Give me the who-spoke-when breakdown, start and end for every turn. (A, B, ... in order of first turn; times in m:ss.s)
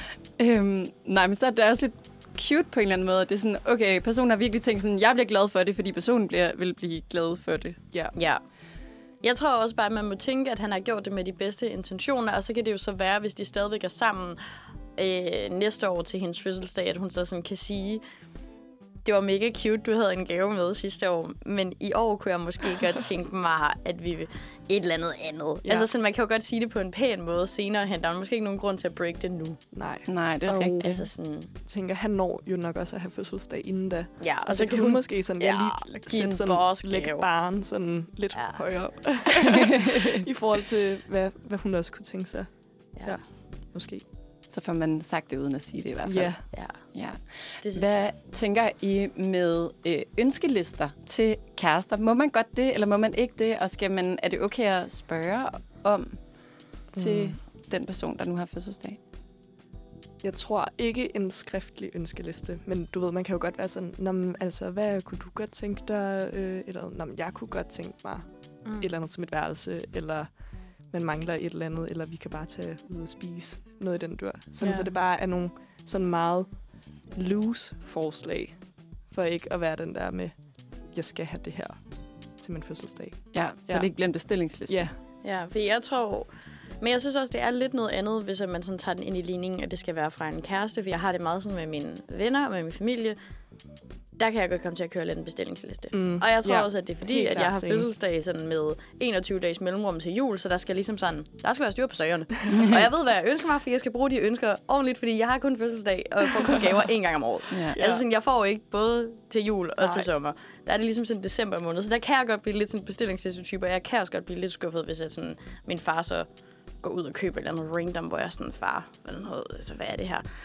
0:00.4-0:07.8 A
0:08.2-0:08.4 B
0:09.2-0:14.4 B
0:15.0-0:18.0 B
0:19.0-0:29.6 B
0:25.6-0:25.9 C
0:29.7-0:31.0 C
0:30.1-0:31.1 A
0:30.8-0:31.5 B
0:31.6-0:42.5 C
0:34.2-0:37.2 B
0:39.4-0:40.2 A
0:43.7-0:44.0 C
0:44.5-0:46.4 A
0:46.0-0:46.4 C
0:47.6-0:47.9 B
0:47.7-0:56.2 A
0:56.9-0:57.3 C
0:57.0-0:59.0 A
1:00.2-1:08.2 C
1:08.6-1:08.9 B
1:08.8-1:10.3 C
1:10.9-1:16.5 C
1:14.6-1:14.9 B
1:17.1-1:18.5 C
1:19.1-1:20.3 C
1:20.9-1:21.8 C
1:22.4-1:23.9 C
1:23.3-1:24.9 A
1:24.7-1:24.9 C
1:25.2-1:26.3 B
1:26.8-1:33.2 B
1:34.2-1:56.3 B
1:35.9-1:37.9 C
1:47.5-1:47.8 A
1:47.7-1:48.0 C
1:49.8-1:50.1 C
1:56.8-2:00.2 B